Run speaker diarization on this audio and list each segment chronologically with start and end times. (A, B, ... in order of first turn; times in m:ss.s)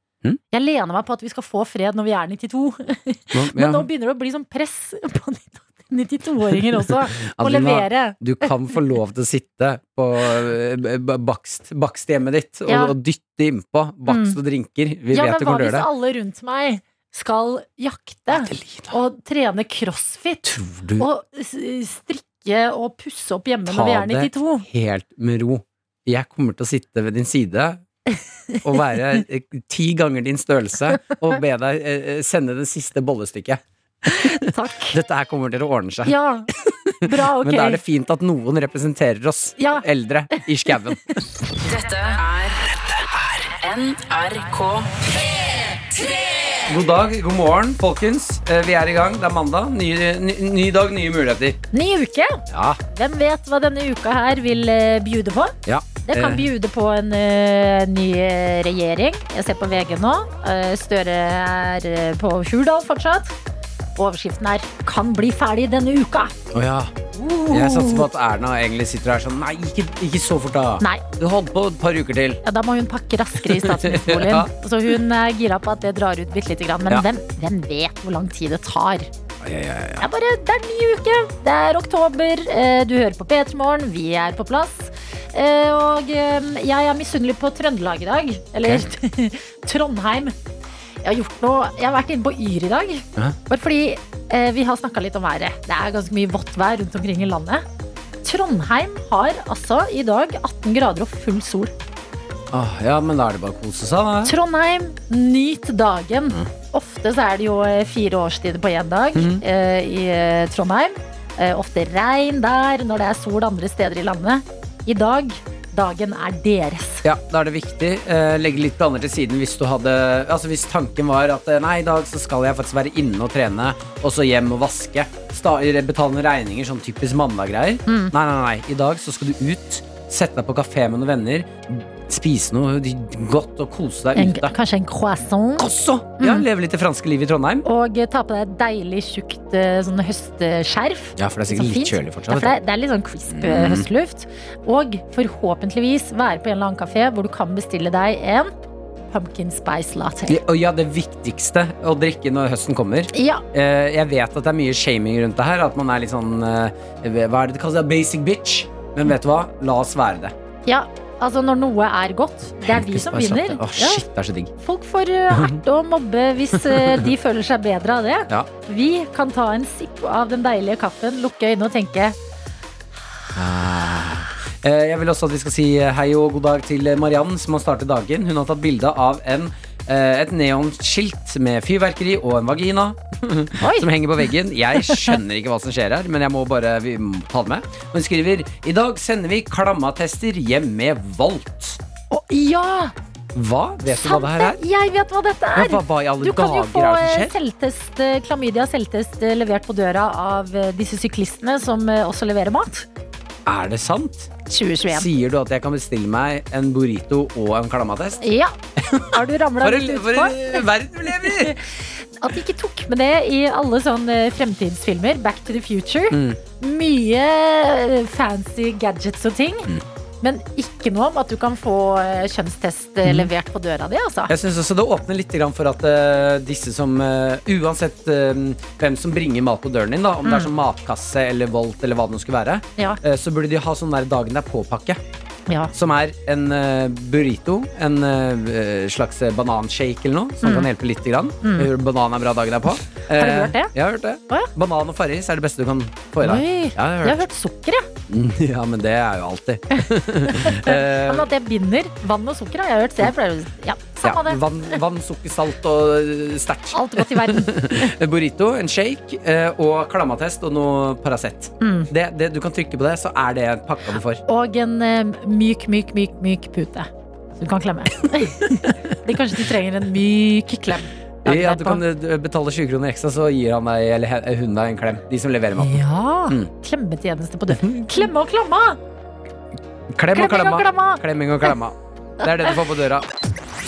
0:00.5-0:08.5 A
0:03.3-0:03.9 B
0:06.9-0:15.9 B
0:12.7-0:12.9 A
0:14.1-0:14.4 A
0:15.1-0:24.6 A
0:18.3-0:18.9 B
0:20.4-0:21.1 B
0:23.6-0:27.8 B
0:28.6-0:34.3 B
0:34.1-0:35.0 A
0:34.9-0:41.2 B
0:36.0-0:36.5 A
0:37.0-0:37.8 A
0:39.6-0:39.8 A
0:41.6-0:42.7 C
0:43.3-0:46.6 C
0:46.7-0:51.6 B
0:51.7-1:03.3 A
0:52.5-0:52.8 B
0:55.6-0:56.4 B
1:04.0-1:06.3 A
1:06.5-1:06.9 B
1:07.1-1:08.1 A
1:07.5-1:12.4 B
1:12.4-1:19.1 A
1:13.4-1:14.5 B
1:19.4-1:20.0 B
1:20.0-1:30.4 A
1:31.0-1:37.6 A
1:38.2-1:41.7 A
1:42.5-1:44.3 B
1:44.2-1:57.0 A
1:49.1-1:49.4 B
1:57.0-2:14.5 B
2:07.9-2:08.1 A
2:14.1-2:15.6 A
2:15.6-2:17.6 B
2:16.2-2:16.4 A
2:17.6-2:28.5 A
2:21.2-2:22.6 B
2:23.3-2:23.9 B
2:29.1-2:30.4 A
2:30.3-2:40.3 B
2:33.1-2:33.4 A
2:40.7-2:44.0 A
2:42.6-2:44.5 B
2:44.6-2:52.2 A
2:45.3-2:45.6 B
2:46.5-2:47.1 B
2:53.3-3:11.8 B
3:03.6-3:03.9 A
3:04.9-3:05.1 A
3:12.1-3:12.9 A
3:13.3-3:14.6 B
3:13.9-3:22.9 A
3:15.5-3:17.3 B
3:23.4-3:24.3 B
3:24.4-3:25.1 A
3:24.9-3:28.2 B
3:28.2-3:30.6 A
3:28.8-3:31.6 B
3:31.2-3:39.7 A
3:36.1-3:36.4 B
3:40.2-3:44.3 A
3:43.0-3:43.3 B
3:44.3-3:55.0 B
3:50.2-3:50.5 A
3:55.7-4:07.2 B
4:00.4-4:00.7 A
4:01.4-4:01.7 A
4:03.1-4:03.7 A
4:06.2-4:07.9 A
4:08.1-4:11.3 B
4:09.7-4:14.8 A
4:14.0-4:24.2 B
4:16.7-4:17.9 A
4:21.6-4:21.9 A
4:24.3-4:31.8 A
4:31.2-4:36.5 B
4:35.6-4:38.8 A
4:37.6-4:38.1 B
4:39.9-4:43.1 B
4:40.1-4:41.0 A
4:42.2-4:42.6 A